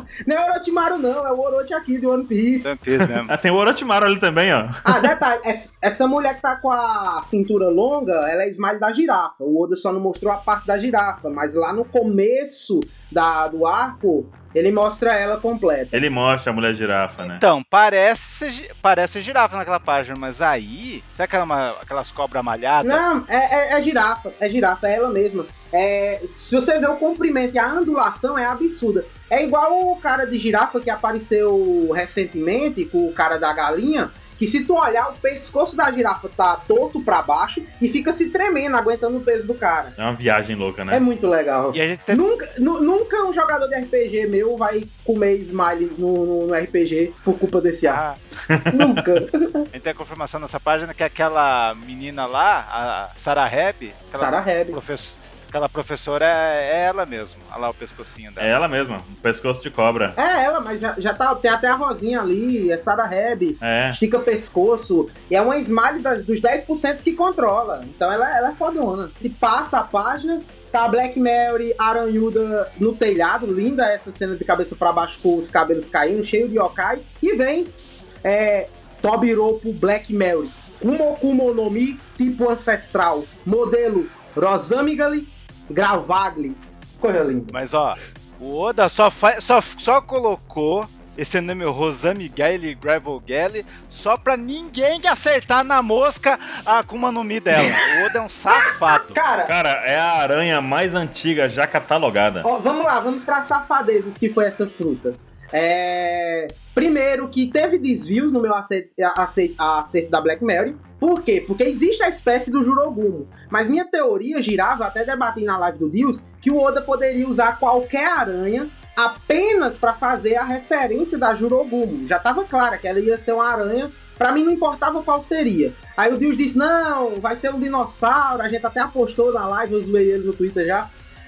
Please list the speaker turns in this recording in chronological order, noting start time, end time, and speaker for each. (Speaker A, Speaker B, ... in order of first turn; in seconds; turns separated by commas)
Speaker A: 0.2-2.8, Speaker B: 2.6-3.3, Speaker C: 3.0-5.2, Speaker A: 4.8-16.0, Speaker C: 15.9-17.4, Speaker B: 17.2-23.0, Speaker A: 22.8-40.0, Speaker C: 40.0-41.0, Speaker A: 40.9-48.0, Speaker B: 41.7-42.2, Speaker B: 47.8-48.2, Speaker C: 48.5-49.2, Speaker A: 48.7-49.7, Speaker B: 49.7-58.6, Speaker A: 54.2-54.8, Speaker C: 58.4-60.2, Speaker A: 60.2-87.5, Speaker C: 63.6-64.0, Speaker B: 87.5-99.2, Speaker A: 97.6-97.9, Speaker A: 99.1-99.5, Speaker C: 99.5-102.5, Speaker A: 102.4-130.9